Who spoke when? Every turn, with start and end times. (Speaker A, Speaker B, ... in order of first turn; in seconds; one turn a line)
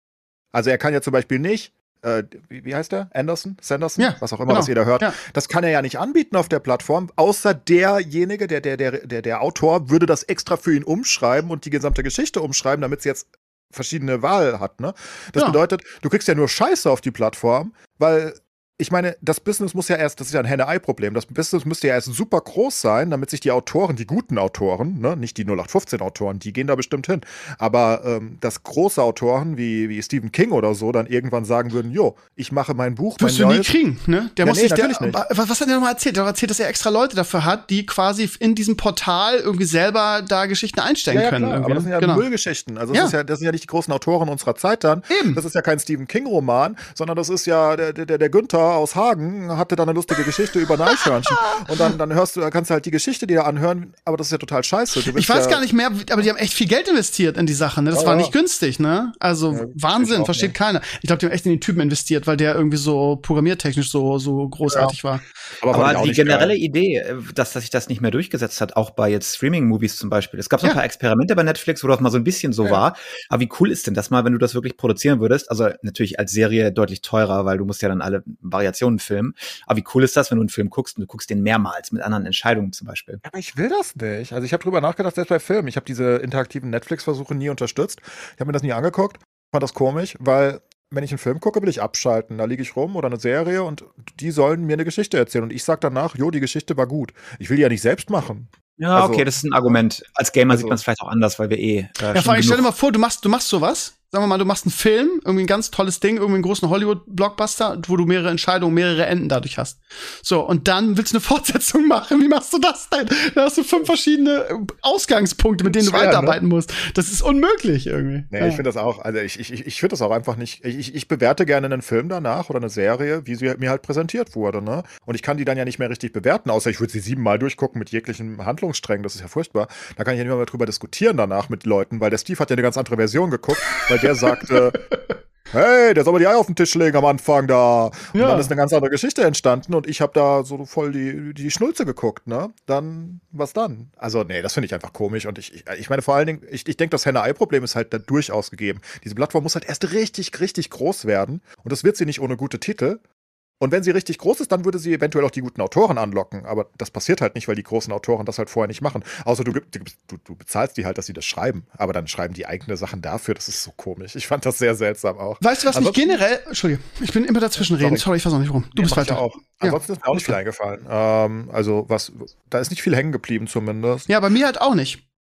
Speaker A: 0.5-33.7
Speaker B: 4.0-5.2
Speaker B: 33.2-42.2
Speaker A: 34.4-35.2
Speaker A: 41.1-55.6
Speaker B: 45.1-45.4
Speaker B: 51.0-51.7
Speaker B: 55.1-65.2
Speaker A: 57.9-58.3
Speaker A: 59.5-60.5
Speaker A: 64.7-64.9
Speaker A: 65.6-66.5
Speaker C: 65.7-83.2
Speaker A: 83.2-99.8
Speaker C: 98.8-102.7
Speaker A: 100.5-100.8
Speaker B: 102.1-118.6
Speaker A: 115.6-116.4
Speaker A: 118.3-134.8
Speaker B: 134.0-135.1
Speaker A: 135.5-153.0
Speaker B: 138.1-138.5
Speaker A: 153.6-166.2
Speaker B: 165.4-170.3
Speaker A: 167.6-168.1
Speaker A: 168.8-174.1
Speaker B: 174.1-175.0